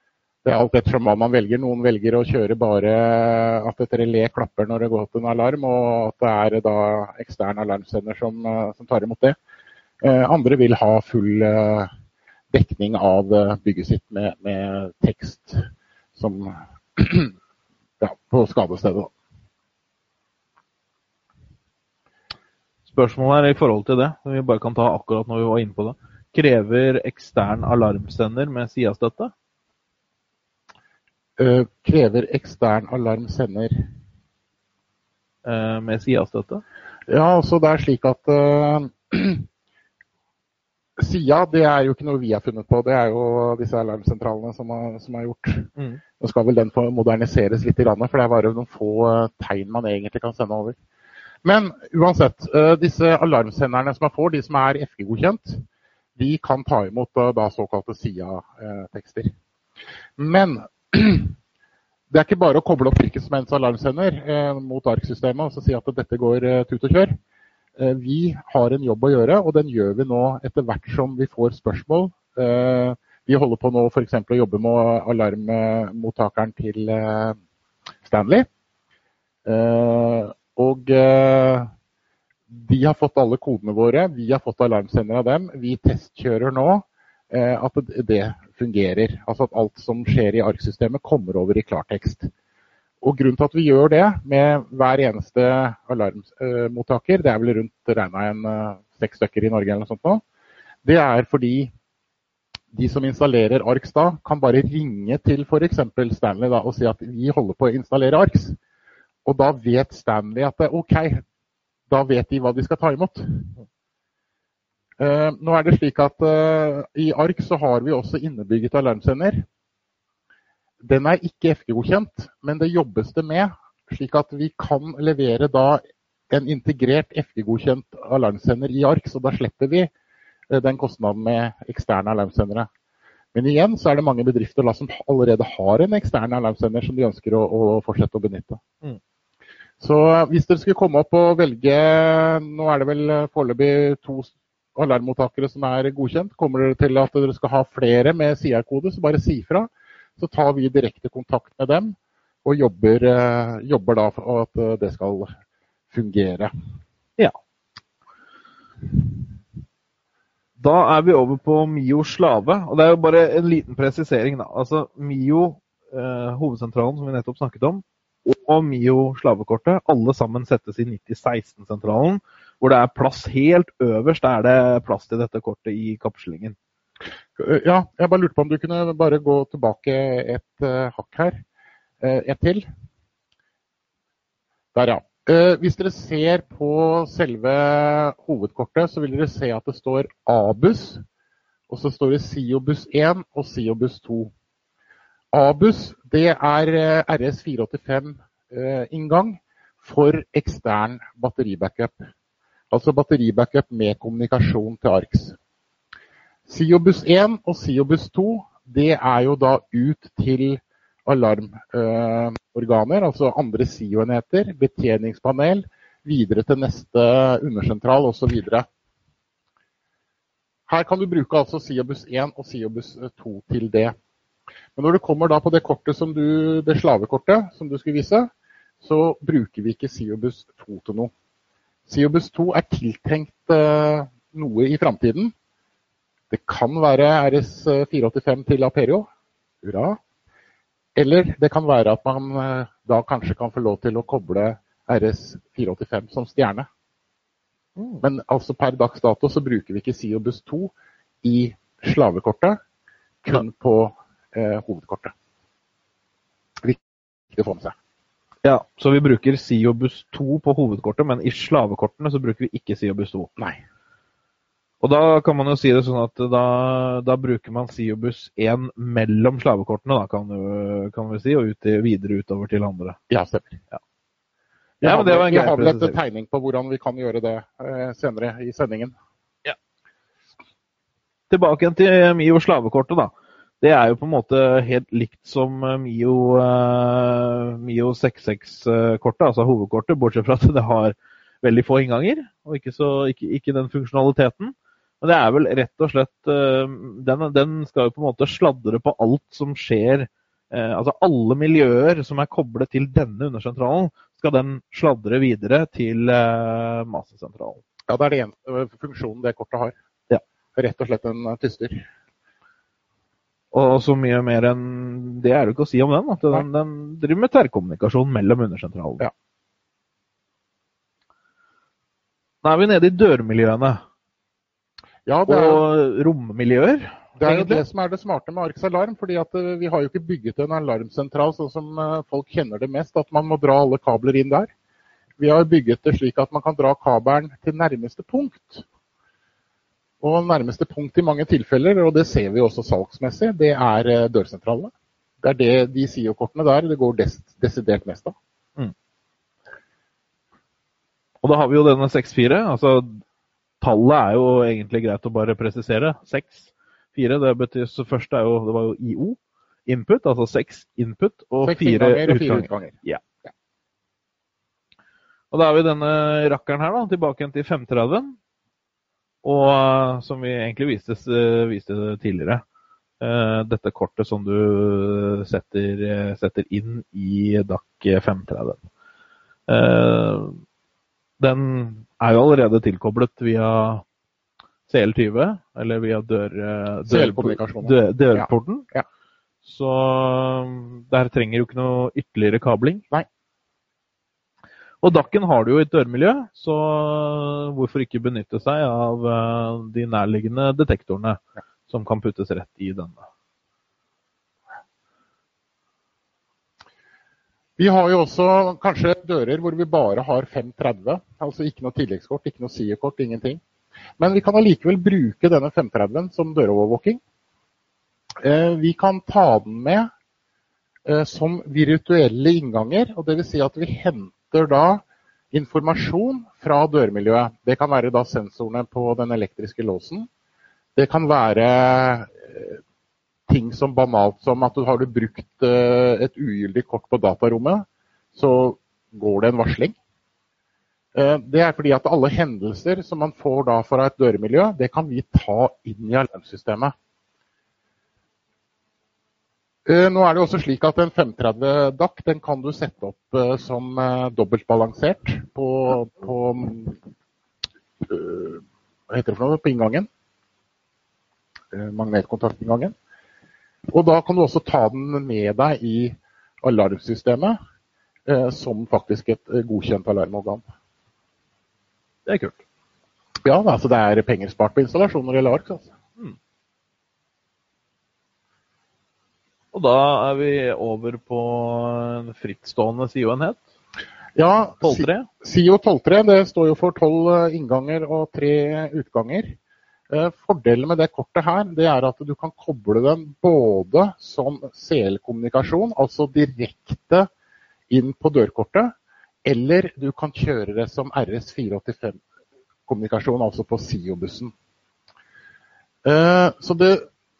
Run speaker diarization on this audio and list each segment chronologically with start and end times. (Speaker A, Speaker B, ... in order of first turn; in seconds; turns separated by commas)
Speaker A: 0.4-9.3, Speaker A: 10.0-11.9, Speaker A: 12.5-17.3, Speaker A: 18.0-19.1, Speaker B: 22.9-29.3, Speaker A: 31.4-33.8, Speaker B: 35.4-36.6, Speaker A: 37.1-39.5, Speaker A: 41.0-45.7, Speaker A: 46.2-50.8, Speaker A: 51.4-55.6, Speaker A: 56.1-59.3, Speaker A: 60.2-61.4, Speaker A: 62.1-67.2, Speaker A: 67.8-77.4, Speaker A: 78.0-78.5, Speaker A: 79.5-81.7, Speaker A: 82.5-92.3, Speaker A: 93.0-100.2, Speaker A: 100.8-101.7, Speaker A: 102.7-108.6, Speaker A: 109.2-111.2, Speaker A: 111.9-113.5, Speaker A: 115.0-119.5, Speaker A: 120.8-129.9, Speaker A: 130.5-132.7, Speaker A: 133.3-138.6, Speaker A: 139.8-155.3, Speaker A: 155.9-156.5, Speaker B: 160.6-176.6, Speaker A: 177.4-181.4, Speaker A: 182.0-182.7, Speaker A: 184.7-191.0, Speaker A: 191.7-194.3, Speaker A: 195.3-202.1, Speaker A: 202.7-205.4, Speaker A: 206.4-218.7, Speaker A: 220.7-223.9, Speaker A: 224.8-228.3, Speaker A: 228.8-231.1, Speaker A: 231.9-235.3, Speaker A: 236.3-239.1, Speaker A: 239.6-240.0, Speaker A: 240.9-246.7, Speaker A: 248.0-250.7, Speaker A: 251.2-252.6, Speaker A: 253.2-255.1, Speaker A: 256.6-257.7, Speaker B: 258.4-263.3, Speaker B: 264.8-273.0, Speaker A: 273.1-273.6, Speaker A: 274.8-278.9, Speaker B: 274.8-276.0, Speaker B: 281.3-307.6, Speaker A: 307.9-309.7, Speaker A: 310.6-311.9, Speaker B: 313.5-319.1, Speaker B: 322.4-323.8, Speaker A: 325.1-325.6, Speaker B: 325.3-327.6, Speaker A: 327.2-334.5, Speaker A: 335.2-338.6, Speaker A: 340.0-348.1, Speaker B: 351.2-353.0, Speaker B: 353.6-363.0, Speaker A: 361.4-362.8, Speaker B: 365.3-368.1, Speaker B: 369.2-372.4, Speaker B: 373.0-378.6, Speaker B: 379.5-380.4, Speaker B: 381.2-383.8, Speaker B: 384.7-388.7, Speaker A: 386.9-388.8, Speaker B: 389.4-392.8, Speaker B: 394.8-403.1, Speaker A: 407.6-413.4, Speaker A: 414.0-417.0, Speaker A: 418.2-419.9, Speaker A: 420.9-430.1, Speaker A: 430.8-432.6, Speaker A: 433.3-439.8, Speaker A: 440.9-446.7, Speaker A: 449.6-456.8, Speaker A: 457.8-459.9, Speaker A: 461.5-462.7, Speaker A: 463.7-467.4, Speaker A: 468.1-470.4, Speaker B: 472.1-472.4, Speaker A: 473.2-475.7, Speaker B: 479.5-483.4, Speaker A: 484.1-489.3, Speaker B: 484.6-485.1, Speaker A: 489.9-497.1, Speaker A: 497.7-498.7, Speaker A: 499.2-502.0, Speaker A: 502.7-504.3, Speaker A: 505.8-506.9